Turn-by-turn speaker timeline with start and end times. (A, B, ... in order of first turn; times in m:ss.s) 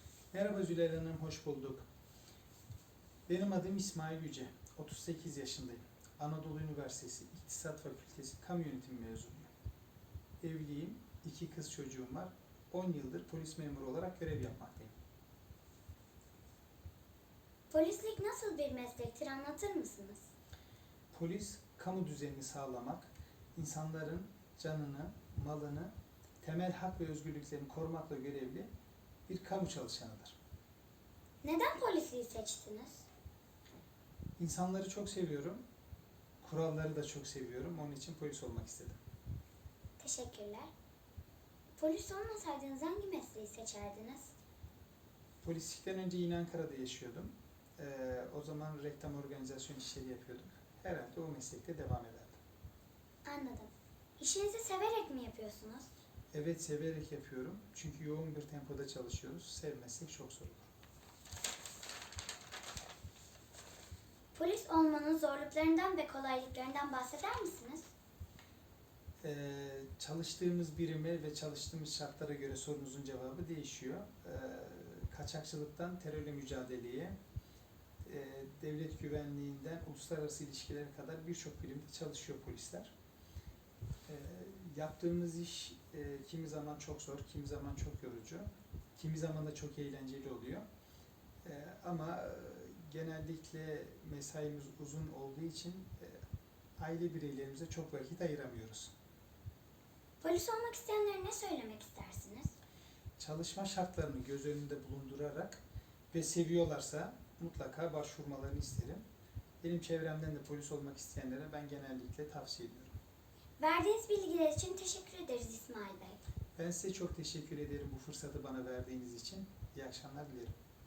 0:00.3-0:01.8 A
0:03.3-0:09.5 A
0:10.4-0:14.9 A
0:17.7-0:20.3 B
0:21.1-0:28.7 A
0:29.3-0:30.4 A
0:31.4-0:33.0 B
0:34.4-0:35.6 A
0:36.4-0:39.0 A
0:40.0-0:40.7 B
0:41.8-0:44.3 B
0:45.4-0:52.4 A
0:53.2-0:55.9 B
0:56.3-1:00.7 A
1:04.3-1:07.9 B
1:09.2-1:17.2 A
1:18.0-1:22.9 A
1:24.0-1:30.6 A
1:31.4-1:36.2 A
1:36.8-1:38.9 A
1:40.2-1:42.5 B
1:43.2-1:45.6 A
1:46.1-1:49.0 A
1:49.6-1:53.0 A
1:53.6-1:56.2 B
1:56.6-2:00.6 A